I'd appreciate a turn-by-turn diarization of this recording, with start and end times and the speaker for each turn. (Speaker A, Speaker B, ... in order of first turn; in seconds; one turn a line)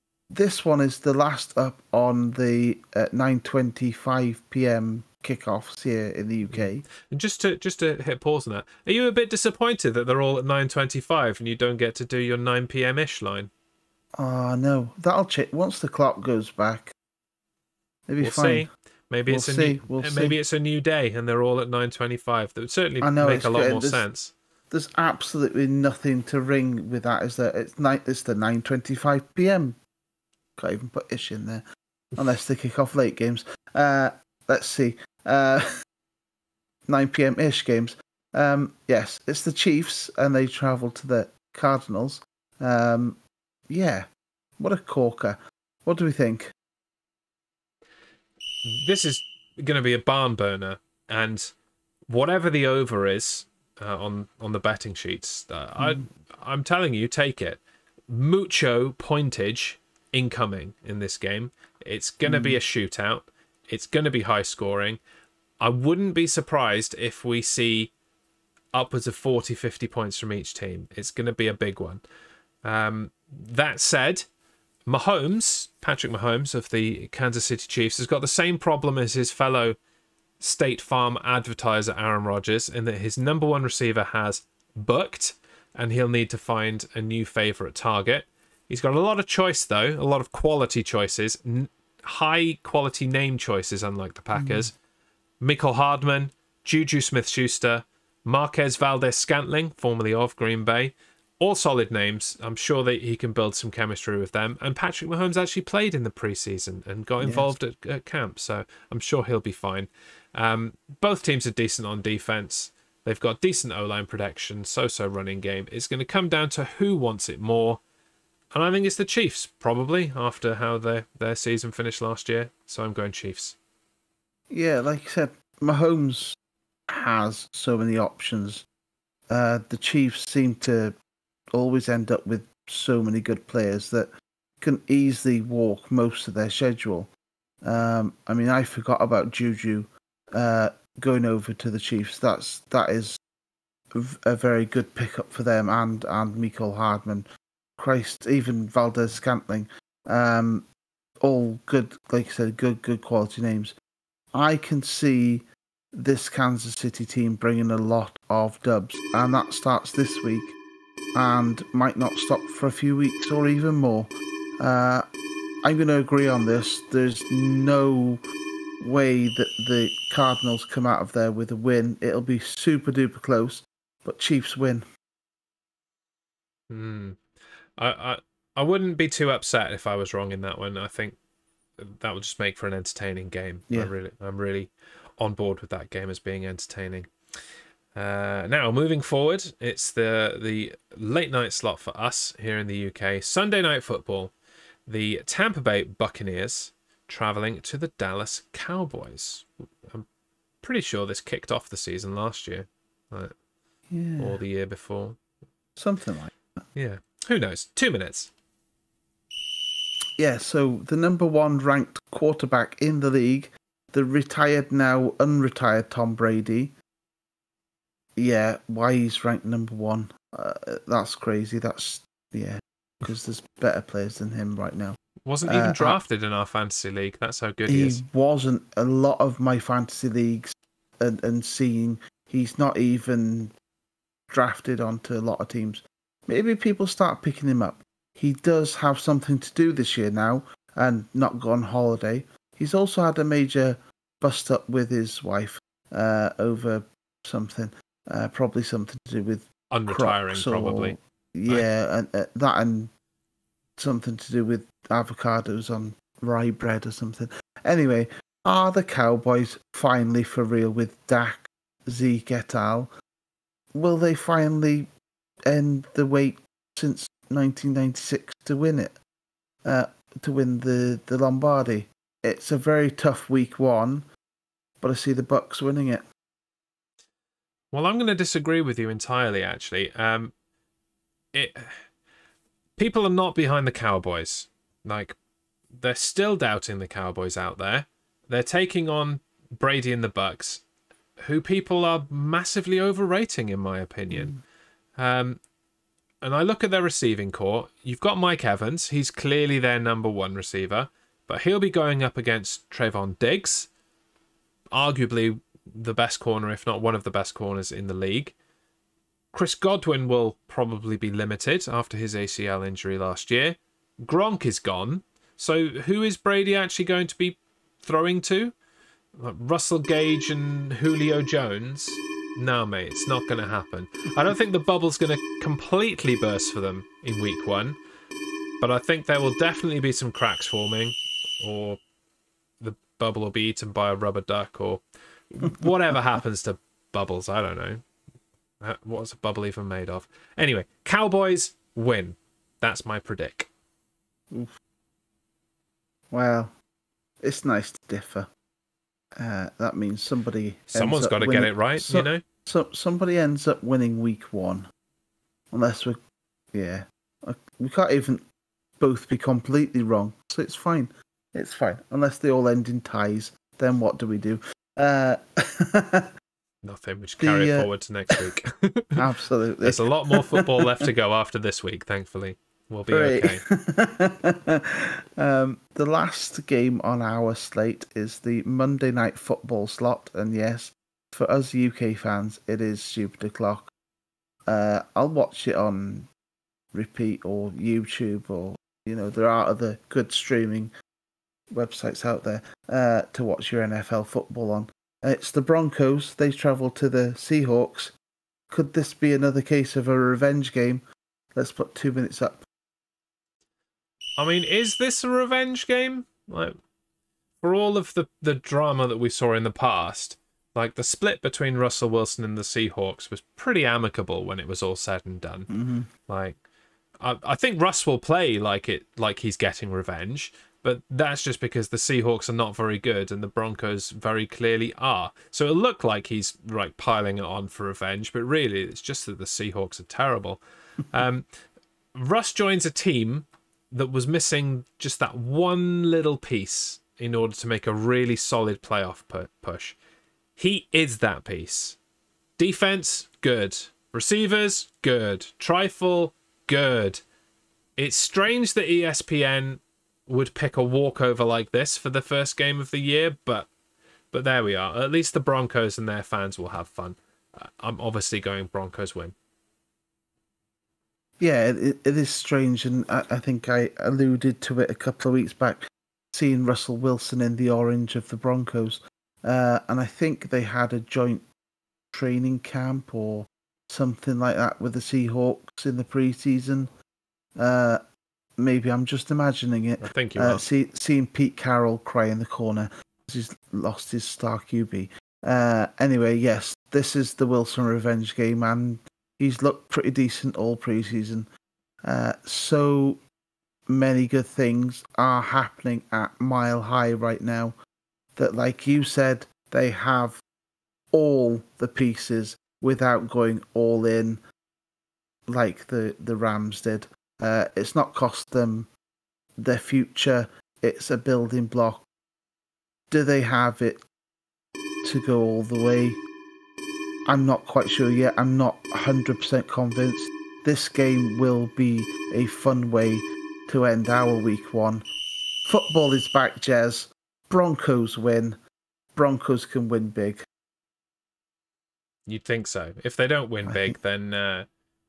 Speaker A: 0.3-6.8
Speaker B: 6.5-13.5
Speaker A: 14.1-16.9
Speaker A: 18.1-18.7
Speaker B: 18.2-24.3
Speaker A: 19.3-20.3
Speaker A: 23.0-24.0
Speaker A: 24.7-29.8
Speaker A: 30.6-31.6
Speaker A: 32.1-35.7
Speaker A: 36.9-44.1
Speaker A: 44.6-46.5
Speaker B: 48.6-51.5
Speaker B: 52.1-65.0
Speaker A: 62.2-62.6
Speaker B: 65.6-67.9
Speaker B: 68.7-72.0
Speaker B: 72.6-74.3
Speaker B: 74.9-79.8
Speaker B: 80.4-94.7
Speaker A: 94.3-94.7
Speaker B: 95.4-117.8
Speaker A: 107.2-107.5
Speaker B: 118.5-123.5
Speaker A: 124.5-126.4
Speaker A: 126.9-128.6
Speaker A: 129.3-130.9
Speaker A: 131.5-134.1
Speaker A: 134.6-137.1
Speaker A: 137.6-143.2
Speaker A: 143.9-147.2
Speaker A: 147.8-150.7
Speaker A: 151.2-153.7
Speaker A: 154.3-160.6
Speaker A: 161.1-165.0
Speaker A: 165.6-168.2
Speaker A: 168.8-174.8
Speaker B: 176.7-177.2
Speaker B: 177.8-181.2
Speaker B: 181.8-187.1
Speaker B: 187.9-194.3
Speaker B: 194.9-200.1
Speaker B: 200.6-203.3
Speaker A: 203.9-204.4
Speaker B: 204.2-205.2
Speaker A: 205.8-206.3
Speaker B: 206.7-208.3
Speaker A: 210.2-216.7
Speaker A: 218.2-226.0
Speaker B: 225.2-228.0
Speaker A: 227.7-233.5
Speaker A: 234.3-252.9
Speaker B: 249.7-250.9
Speaker A: 253.8-262.9
Speaker A: 263.7-264.9
Speaker A: 265.5-269.0
Speaker A: 269.6-274.1
Speaker A: 274.8-276.1
Speaker B: 277.7-280.3
Speaker B: 281.3-281.8
Speaker B: 282.8-285.1
Speaker B: 285.7-290.6
Speaker B: 291.2-294.4
Speaker B: 295.0-295.4
Speaker B: 296.2-303.7
Speaker B: 304.7-308.3
Speaker B: 309.3-318.5
Speaker B: 319.1-327.8
Speaker B: 328.6-331.8
Speaker B: 332.6-337.8
Speaker B: 338.6-343.5
Speaker A: 346.1-346.6
Speaker A: 347.2-348.3
Speaker A: 349.2-354.7
Speaker B: 350.7-352.2
Speaker A: 355.5-356.0
Speaker A: 356.5-358.2
Speaker A: 358.8-366.1
Speaker B: 366.6-369.0
Speaker A: 367.2-368.2
Speaker A: 369.0-370.8
Speaker B: 369.6-373.4
Speaker A: 372.9-383.7
Speaker A: 384.5-386.1
Speaker A: 386.7-390.7
Speaker A: 391.5-397.9
Speaker A: 398.5-400.8
Speaker A: 401.3-402.4
Speaker B: 404.2-406.6
Speaker B: 407.4-415.5
Speaker A: 415.5-415.9
Speaker B: 416.1-416.4
Speaker B: 417.0-431.2
Speaker B: 431.9-439.8
Speaker B: 440.4-441.8
Speaker B: 442.4-447.0
Speaker B: 447.8-453.5
Speaker B: 454.1-459.1
Speaker A: 461.2-471.2
Speaker A: 471.9-476.7
Speaker A: 477.4-477.8
Speaker A: 478.4-491.3
Speaker B: 479.8-480.4
Speaker A: 491.8-493.0
Speaker A: 493.7-497.6
Speaker A: 498.1-500.2
Speaker A: 500.9-504.2
Speaker A: 505.3-508.7
Speaker A: 509.4-511.8
Speaker A: 512.9-513.8
Speaker A: 514.8-516.0
Speaker A: 517.1-524.8
Speaker A: 525.5-528.4
Speaker A: 529.0-530.2
Speaker B: 532.1-534.5
Speaker A: 533.4-533.7